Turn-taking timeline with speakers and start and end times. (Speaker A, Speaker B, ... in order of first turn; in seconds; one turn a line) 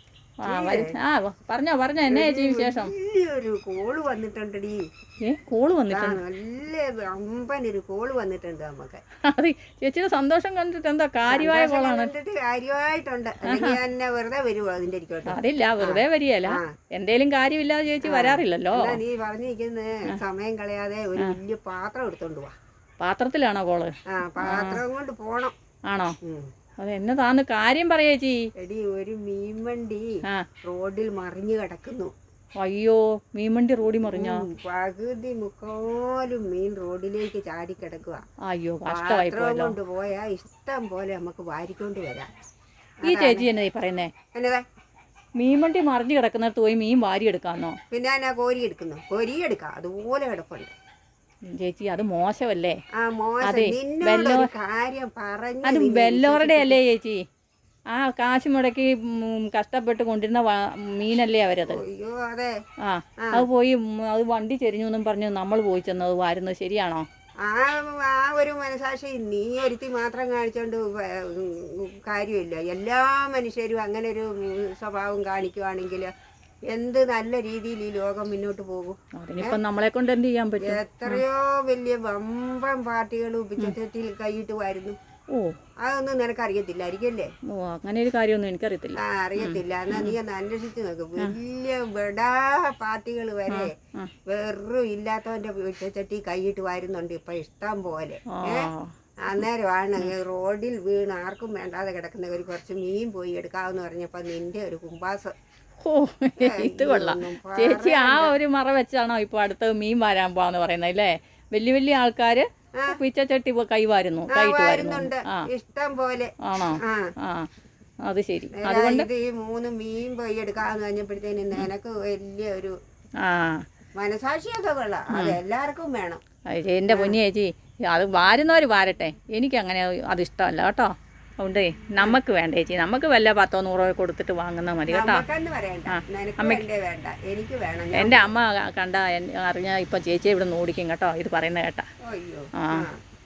Speaker A: 0.4-2.9
Speaker B: 0.5-1.0
Speaker B: 2.1-4.8
Speaker A: 5.2-6.2
Speaker B: 5.9-9.0
Speaker A: 9.2-12.1
Speaker B: 11.3-16.7
Speaker A: 13.5-13.8
Speaker A: 15.3-19.0
Speaker B: 18.1-22.5
Speaker A: 23.0-24.8
Speaker B: 24.1-25.5
Speaker A: 25.9-26.2
Speaker B: 26.2-26.5
Speaker A: 26.8-28.4
Speaker B: 28.6-30.1
Speaker B: 30.7-32.1
Speaker A: 32.6-34.5
Speaker B: 34.1-38.2
Speaker A: 38.5-39.8
Speaker B: 38.9-42.3
Speaker B: 43.0-43.5
Speaker A: 43.0-44.1
Speaker B: 44.3-44.6
Speaker A: 45.4-47.8
Speaker B: 47.9-50.7
Speaker A: 51.5-52.8
Speaker B: 53.0-56.8
Speaker A: 53.5-54.5
Speaker A: 55.6-57.2
Speaker A: 57.9-61.8
Speaker B: 61.7-62.5
Speaker A: 62.8-67.0
Speaker B: 63.2-63.5
Speaker B: 67.4-76.1
Speaker B: 76.7-79.6
Speaker A: 79.2-81.2
Speaker B: 80.6-85.0
Speaker A: 85.3-85.5
Speaker B: 85.8-87.3
Speaker A: 87.5-90.2
Speaker B: 89.0-93.7
Speaker A: 93.5-94.1
Speaker B: 94.3-98.7
Speaker A: 98.3-98.9
Speaker B: 99.2-105.3
Speaker A: 105.8-115.5
Speaker B: 106.4-108.3
Speaker B: 114.3-117.1
Speaker A: 116.4-117.5
Speaker A: 118.0-119.1
Speaker B: 118.6-122.8
Speaker A: 123.2-123.6
Speaker B: 124.0-126.2
Speaker A: 125.1-125.4
Speaker A: 126.5-135.2
Speaker B: 126.9-127.2
Speaker B: 134.9-138.3
Speaker A: 135.9-136.7
Speaker A: 137.9-141.9
Speaker B: 142.1-143.0
Speaker A: 142.6-142.9